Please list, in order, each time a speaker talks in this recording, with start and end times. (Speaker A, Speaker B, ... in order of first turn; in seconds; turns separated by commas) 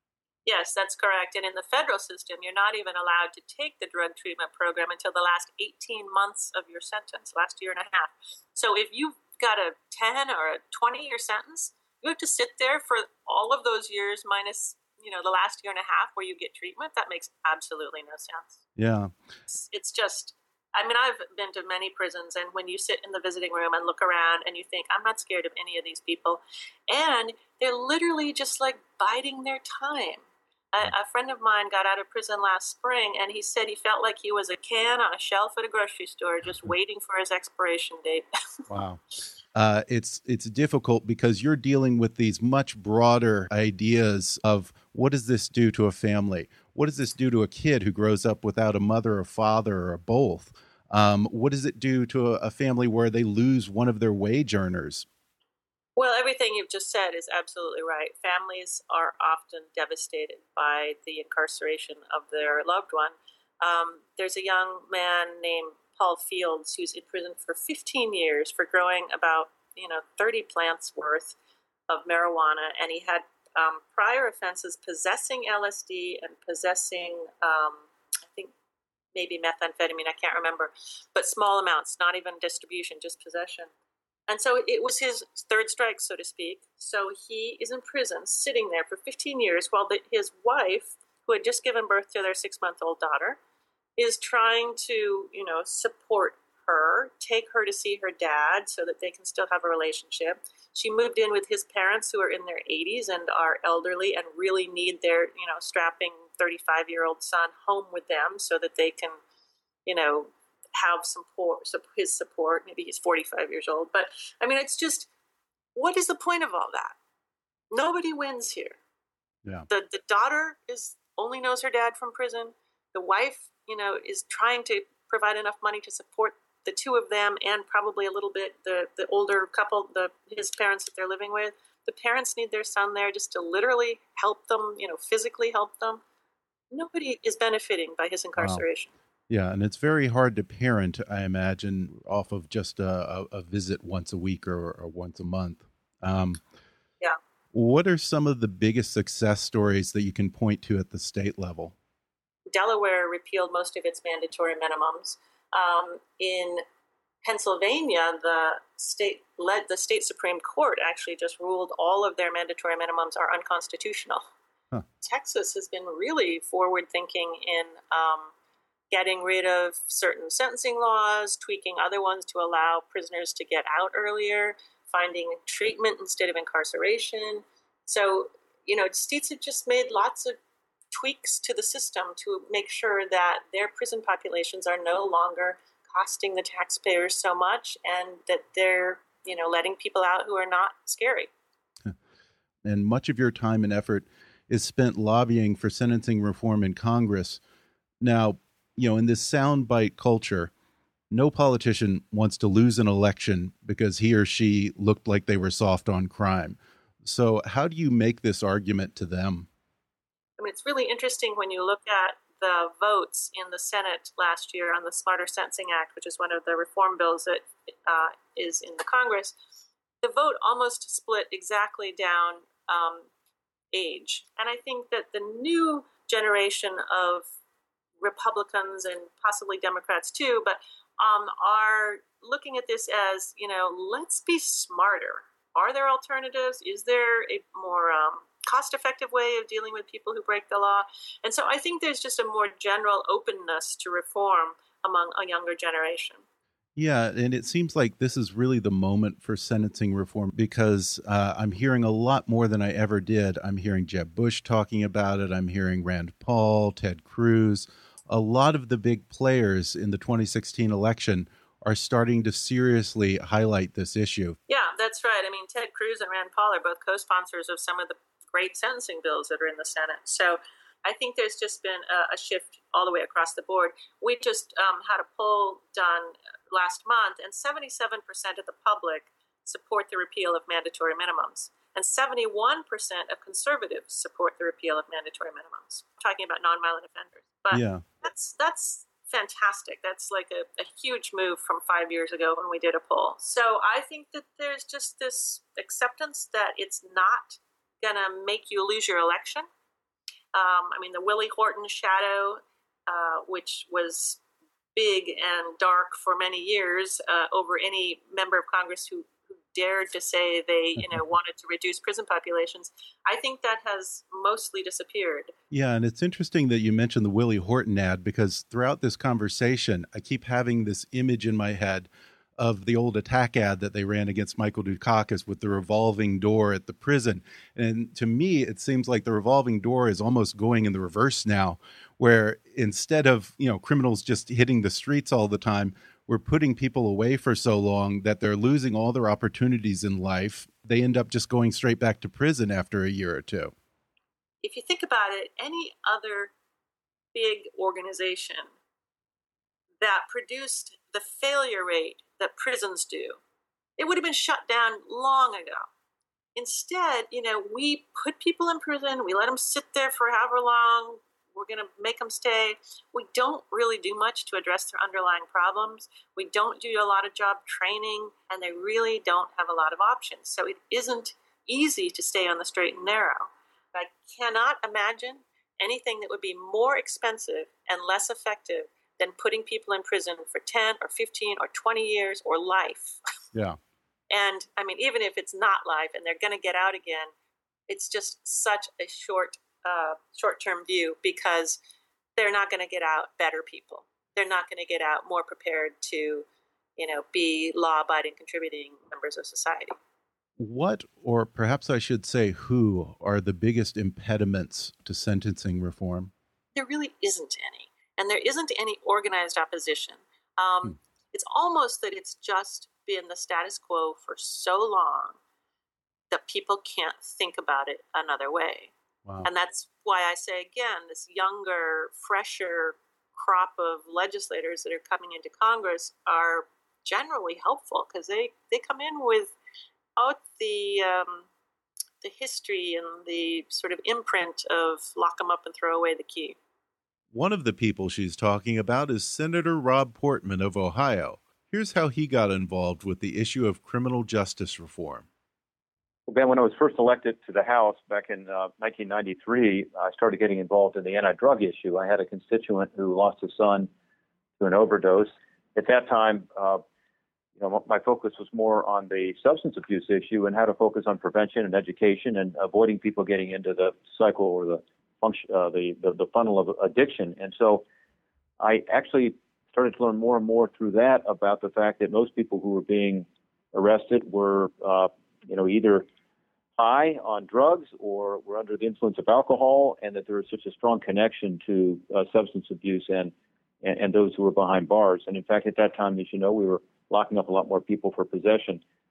Speaker A: 0.5-18.6, Speaker B: 18.8-19.1, Speaker A: 19.5-38.3, Speaker B: 38.7-39.0, Speaker B: 39.5-55.0, Speaker A: 56.0-71.3, Speaker A: 71.9-78.5, Speaker A: 79.1-83.7, Speaker A: 84.3-93.4, Speaker A: 94.0-109.2, Speaker A: 109.8-115.1, Speaker A: 115.8-117.0, Speaker A: 117.7-118.8, Speaker A: 119.7-136.0, Speaker A: 136.7-138.9, Speaker B: 138.4-138.6, Speaker B: 139.3-146.4, Speaker B: 147.5-151.7, Speaker A: 152.5-156.6, Speaker A: 157.2-164.2, Speaker A: 165.0-168.3, Speaker A: 168.9-180.4, Speaker A: 180.9-191.3, Speaker B: 192.6-197.4, Speaker B: 198.0-200.5, Speaker B: 201.1-209.5, Speaker A: 210.4-219.3, Speaker A: 220.0-223.1, Speaker A: 223.7-227.3, Speaker A: 228.0-246.2, Speaker B: 246.8-264.4, Speaker A: 264.5-299.5, Speaker B: 287.5-287.8, Speaker A: 300.3-304.2, Speaker A: 304.8-315.3, Speaker B: 315.5-343.5, Speaker A: 344.4-346.3, Speaker A: 347.1-348.5, Speaker A: 349.8-353.2, Speaker A: 353.8-355.7, Speaker A: 356.4-383.0, Speaker A: 384.1-387.1, Speaker A: 387.7-391.6, Speaker A: 392.2-396.2, Speaker A: 396.8-399.8, Speaker B: 400.4-406.1, Speaker A: 406.5-415.2, Speaker A: 416.1-418.7, Speaker A: 419.2-429.3, Speaker A: 430.0-431.3, Speaker A: 432.0-436.4, Speaker B: 437.1-445.1, Speaker C: 446.1-453.7, Speaker C: 454.4-456.6, Speaker C: 457.4-467.6, Speaker C: 468.4-475.9, Speaker C: 476.6-488.6